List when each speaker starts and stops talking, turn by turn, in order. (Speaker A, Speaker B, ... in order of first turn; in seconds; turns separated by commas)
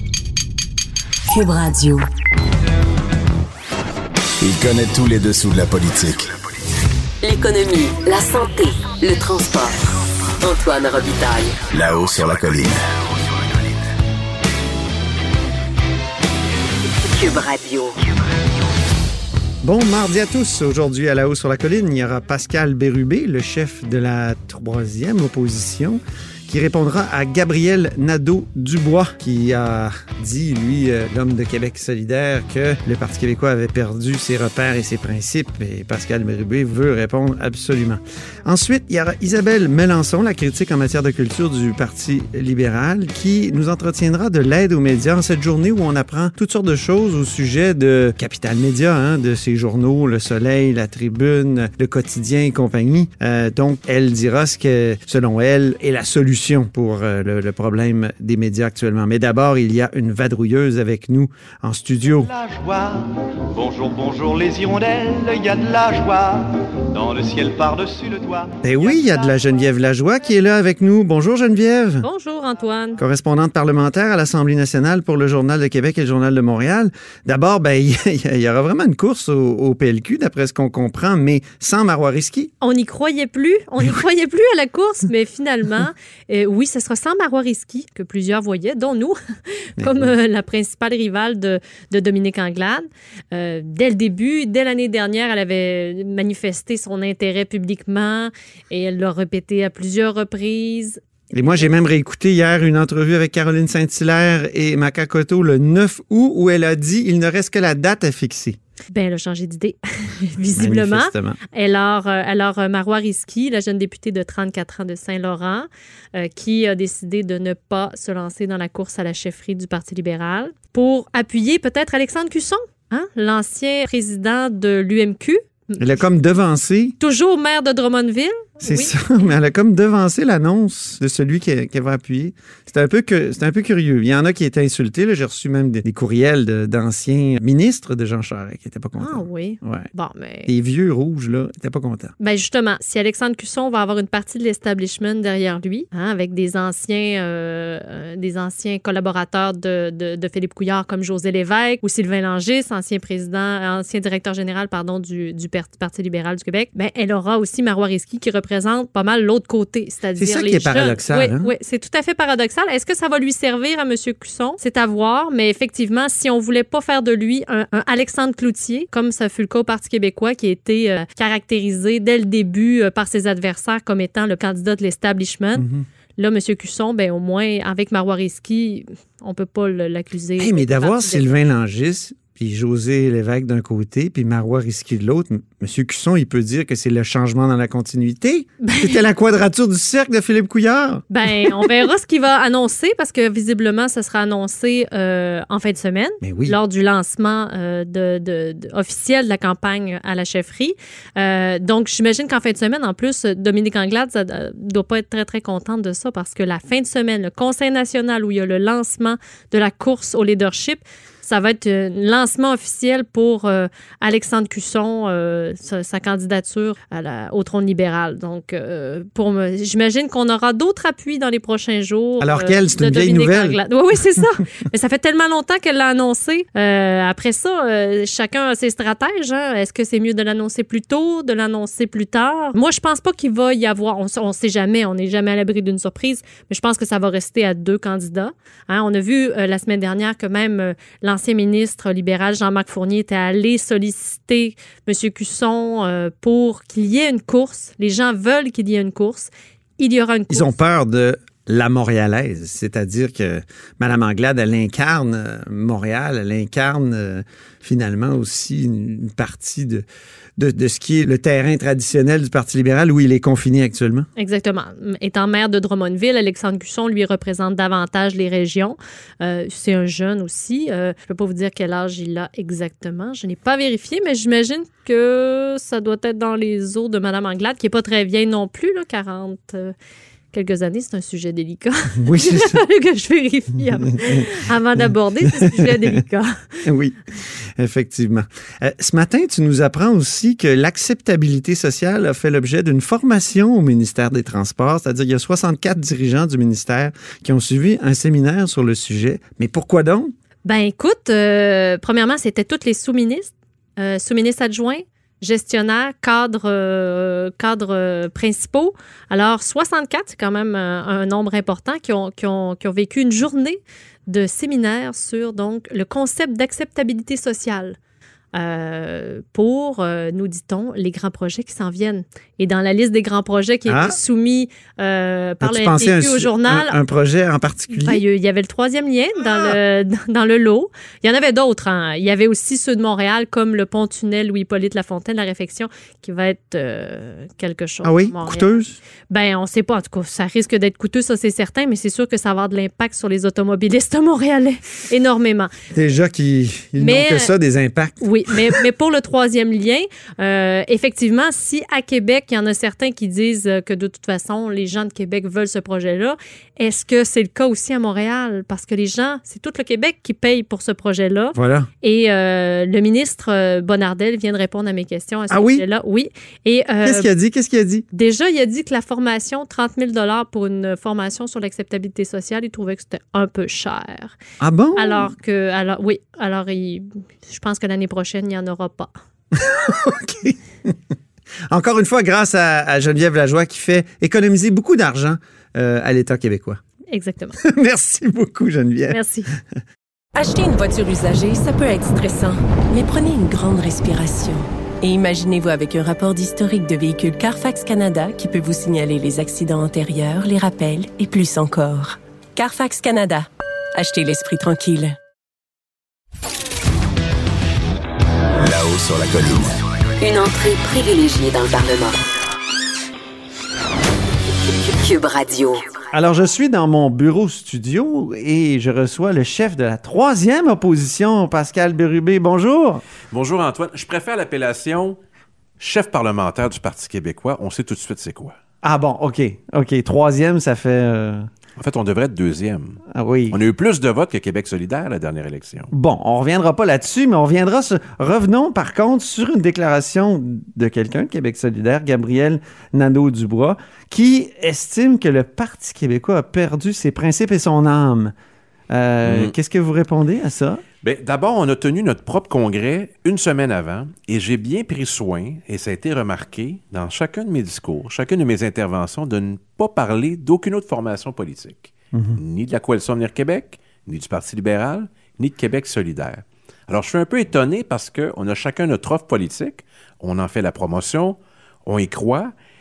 Speaker A: 1.3-2.0, Speaker B: 4.4-6.3, Speaker A: 7.2-9.8, Speaker A: 10.4-11.6, Speaker B: 11.7-12.8, Speaker A: 17.1-17.9, Speaker C: 19.6-62.3, Speaker D: 62.0-69.5, Speaker C: 68.6-72.1, Speaker E: 72.0-73.0, Speaker C: 73.0-82.5, Speaker E: 82.6-101.7, Speaker C: 89.8-90.1, Speaker C: 101.3-108.6, Speaker E: 108.9-126.0, Speaker C: 110.5-111.4, Speaker C: 125.8-127.0, Speaker E: 127.0-128.9, Speaker C: 128.6-139.9, Speaker E: 139.0-140.5, Speaker C: 140.4-142.1, Speaker E: 142.2-175.6, Speaker C: 160.2-161.5, Speaker C: 175.5-175.8, Speaker E: 176.2-181.3, Speaker C: 180.4-191.7, Speaker E: 188.6-189.0, Speaker E: 191.1-250.5, Speaker C: 196.2-196.6, Speaker C: 222.2-223.6, Speaker C: 250.3-259.9, Speaker C: 260.4-264.1, Speaker E: 264.2-279.7, Speaker E: 280.3-286.6, Speaker C: 282.0-282.6, Speaker C: 285.4-285.9, Speaker C: 286.6-300.1, Speaker E: 300.4-317.8, Speaker E: 318.3-326.8, Speaker C: 323.7-324.0, Speaker C: 325.4-328.0, Speaker E: 327.7-345.5, Speaker C: 329.2-329.6, Speaker C: 337.8-338.8, Speaker C: 345.7-348.6, Speaker E: 346.8-347.3, Speaker E: 348.0-367.1, Speaker C: 361.3-361.7, Speaker C: 365.3-365.6, Speaker C: 366.8-367.9, Speaker E: 367.9-374.1, Speaker C: 374.4-375.1, Speaker E: 374.8-378.9, Speaker C: 379.3-380.8, Speaker C: 381.5-386.6, Speaker E: 386.9-387.4, Speaker C: 387.4-389.4, Speaker E: 388.9-389.3, Speaker F: 390.1-405.0, Speaker B: 408.4-409.6, Speaker A: 410.0-412.0, Speaker A: 414.8-415.7, Speaker C: 415.9-422.8, Speaker G: 423.1-425.0, Speaker G: 425.6-428.4, Speaker C: 428.6-431.3, Speaker G: 431.6-435.7, Speaker C: 432.9-433.4, Speaker C: 435.7-448.1, Speaker C: 448.7-450.6, Speaker G: 449.1-449.3, Speaker G: 450.8-472.3, Speaker C: 461.9-462.2